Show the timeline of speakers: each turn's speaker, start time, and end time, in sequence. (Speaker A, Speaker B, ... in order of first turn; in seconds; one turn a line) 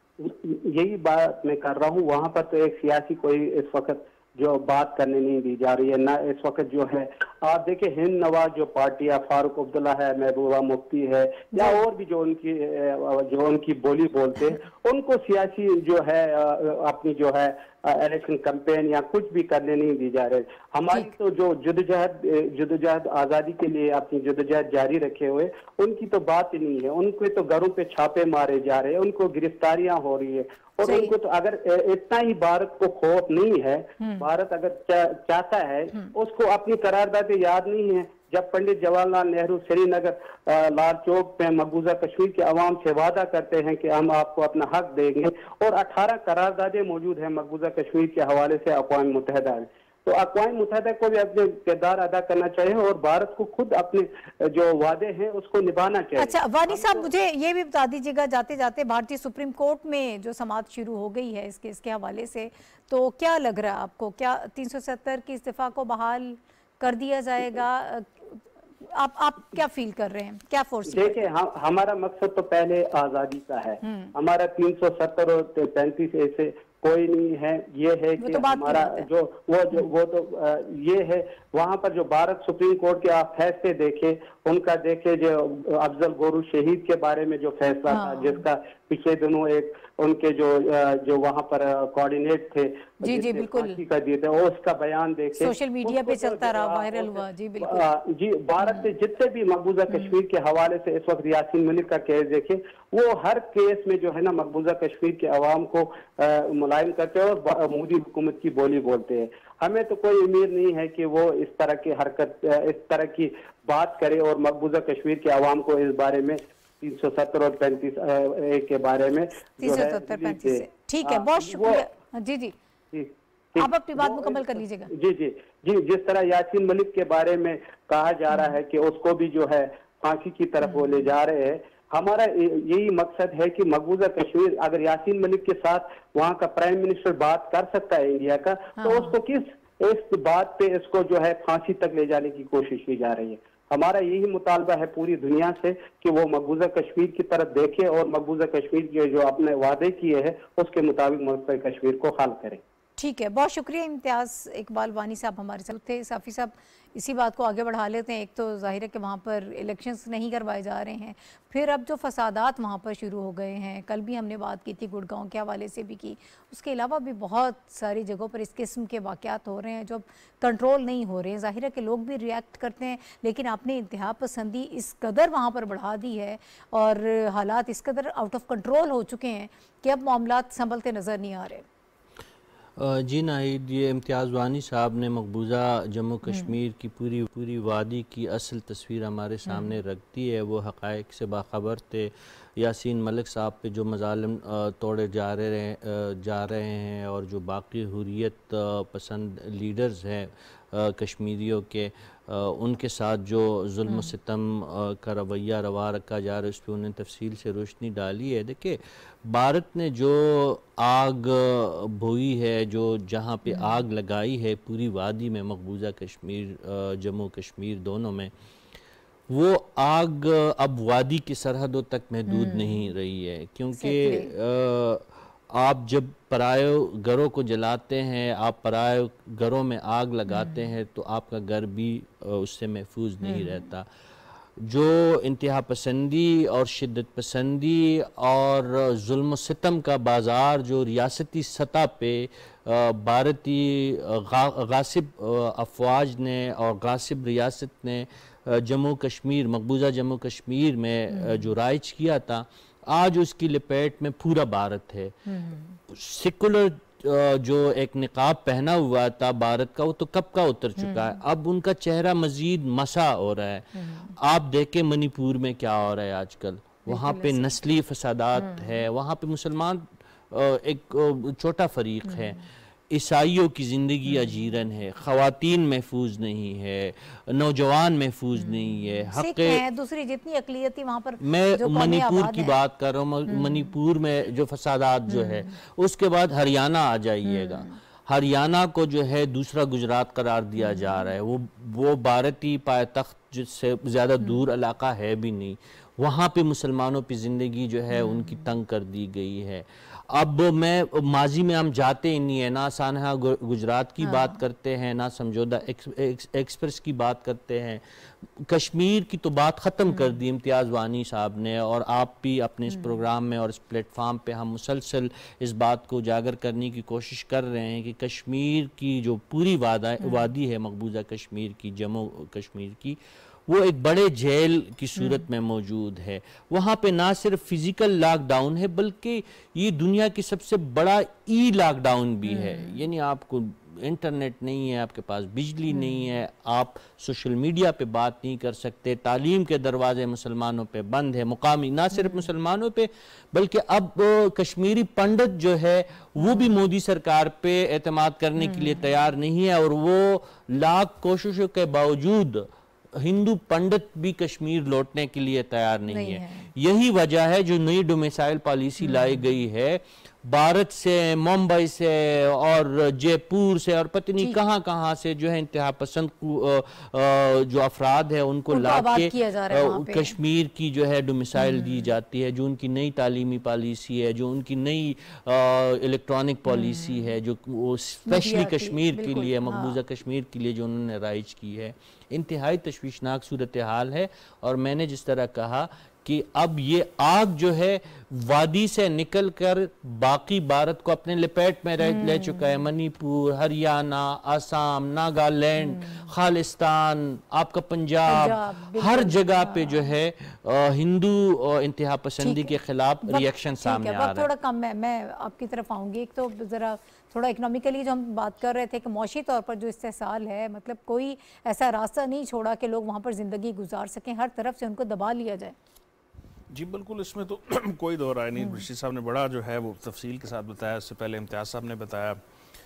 Speaker A: 0.2-57.1
Speaker B: 11.5-11.8
Speaker B: 30.8-31.1
Speaker B: 34.0-34.2
Speaker B: 56.2-71.2
Speaker A: 70.9-121.9
Speaker B: 73.8-74.1
Speaker B: 78.2-79.1
Speaker B: 87.9-88.4
Speaker B: 93.0-93.8
Speaker B: 95.3-97.8
Speaker B: 98.6-98.9
Speaker B: 99.9-100.1
Speaker B: 119.6-122.5
Speaker A: 122.9-152.6
Speaker B: 123.6-124.9
Speaker B: 128.3-128.6
Speaker B: 130.6-131.1
Speaker B: 138.8-139.1
Speaker B: 153.0-181.6
Speaker C: 182.8-218.3
Speaker B: 186.3-186.5
Speaker B: 203.9-204.1
Speaker B: 213.5-213.8
Speaker C: 219.3-233.8
Speaker B: 222.3-222.9
Speaker B: 223.7-224.3
Speaker B: 230.3-230.7
Speaker B: 233.2-233.7
Speaker C: 234.6-255.2
Speaker B: 251.1-251.5
Speaker B: 255.2-255.8
Speaker C: 255.9-279.6
Speaker B: 260.8-261.2
Speaker B: 263.7-264.1
Speaker B: 266.9-267.5
Speaker B: 268.3-268.8
Speaker B: 272.0-272.4
Speaker B: 278.4-282.6
Speaker C: 281.2-404.3
Speaker B: 283.3-283.7
Speaker B: 285.1-285.5
Speaker B: 287.2-287.8
Speaker B: 290.6-291.1
Speaker B: 297.9-298.5
Speaker B: 304.0-304.4
Speaker B: 309.9-310.2
Speaker B: 312.7-313.0
Speaker B: 320.0-320.3
Speaker B: 325.0-325.2
Speaker B: 332.2-332.8
Speaker B: 335.7-336.2
Speaker B: 341.9-342.3
Speaker B: 346.2-346.5
Speaker B: 348.4-348.8
Speaker B: 355.9-356.5
Speaker B: 358.8-359.2
Speaker B: 368.5-370.1
Speaker B: 371.4-371.9
Speaker B: 376.5-377.1
Speaker B: 378.1-379.8
Speaker B: 391.8-392.5
Speaker B: 395.6-396.1
Speaker B: 398.1-399.9
Speaker B: 402.2-402.5
Speaker B: 403.0-415.5
Speaker D: 416.5-422.2
Speaker B: 418.4-418.7